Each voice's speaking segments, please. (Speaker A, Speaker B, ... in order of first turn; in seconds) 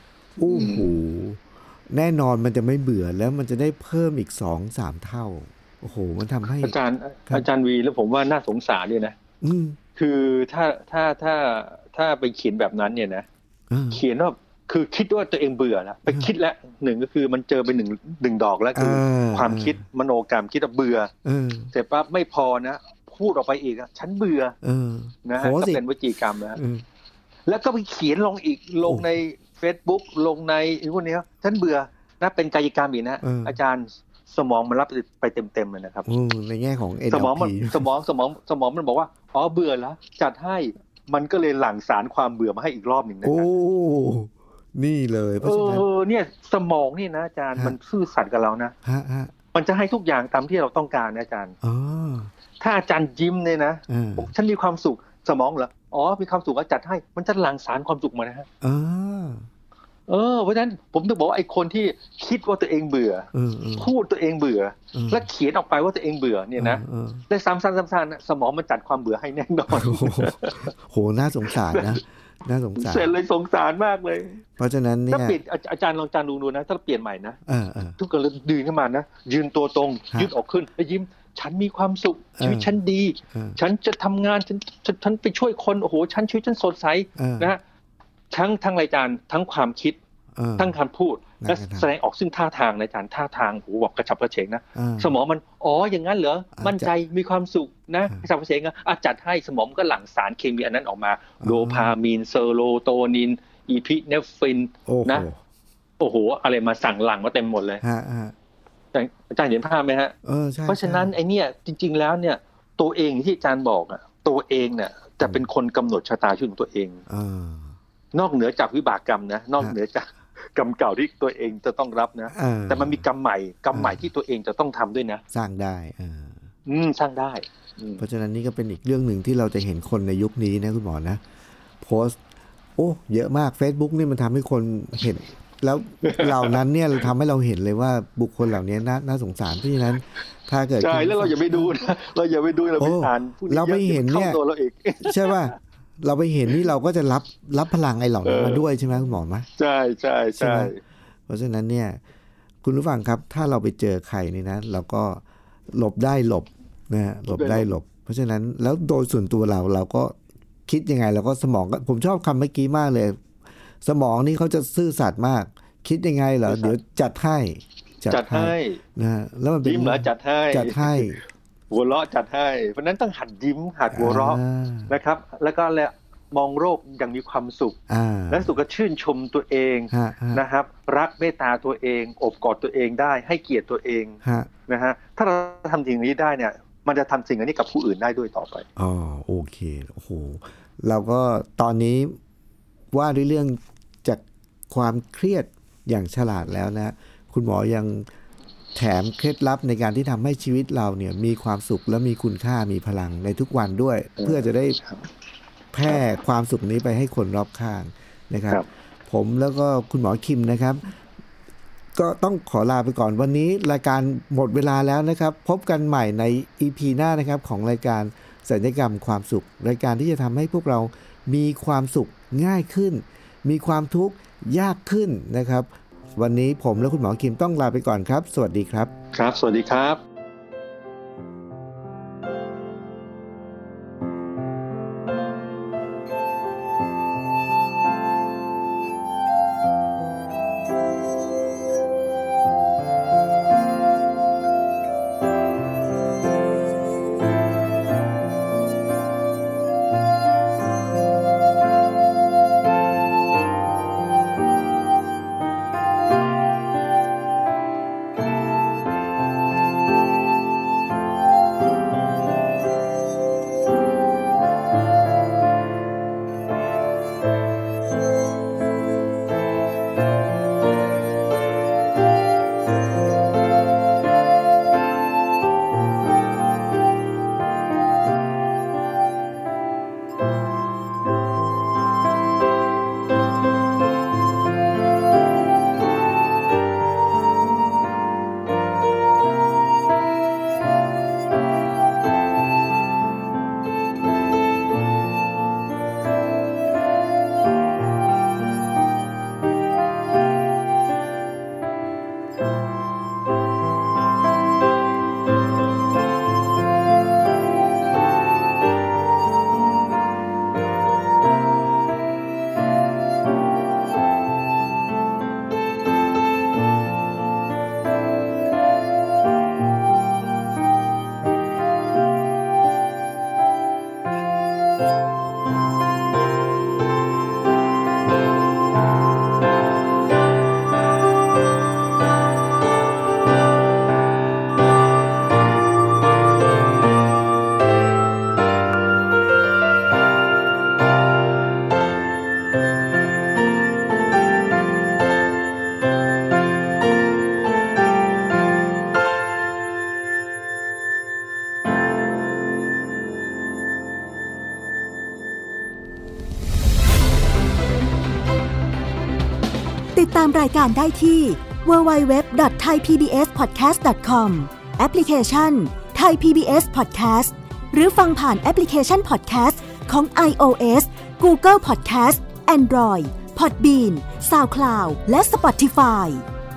Speaker A: 0.4-6.7, 9.4-9.8, 13.7-14.0, 18.7-19.8, 21.2-21.7, 24.6-25.8, 26.6-26.8, 28.8-29.1, 33.2-33.6, 36.0-37.9, 43.2-45.9, 48.8-49.3, 51.6-52.3, 53.9-54.3, 58.6-59.5, 63.3-63.9, 64.9-65.3, 66.5-67.2, 69.7-73.1, 74.6-75.4, 77.5-78.0, 82.4-82.7, 83.3-83.6, 87.2-87.5, 90.3-90.8, 91.4-91.9, 94.7-95.2, 96.6-96.9, 101.4-102.0, 104.9-105.4, 107.8-108.3, 110.2-111.1, 117.1-117.7, 122.3-123.0, 123.7-124.0, 125.3-126.4, 128.0-131.2, 131.8-132.2, 132.8-141.7, 142.8-144.4, 145.0-149.5, 150.4-150.7, 151.3-152.0, 152.6-160.1, 160.7-163.2, 163.8-171.2, 173.9-174.9, 177.9-178.6, 179.9-180.4, 184.2-184.5, 188.8-192.2, 192.9-198.1, 198.7-204.8, 205.7-210.8, 211.9-228.9
Speaker B: 0.4-1.0, 6.6-9.2, 9.9-13.2, 13.9-21.1, 21.7-24.5, 25.2-26.6, 27.5-36.1, 37.1-43.5, 45.4-48.7, 49.5-51.5, 52.6-58.5, 60.1-70.7, 71.5-72.0, 72.8-74.4, 75.1-77.4, 78.0-87.6, 88.3-90.0, 90.6-105.2, 106.0-107.8, 108.9-110.1, 110.7-117.0, 118.1-125.2, 126.7-128.0, 136.0-136.6, 140.8-145.5, 148.2-148.6, 149.6-150.8, 157.3-157.7, 166.5-166.8, 168.1-168.8, 169.6-171.2, 171.7-177.8, 178.3-188.7, 204.2-205.0, 229.1-230.0
Speaker C: 359.9-376.2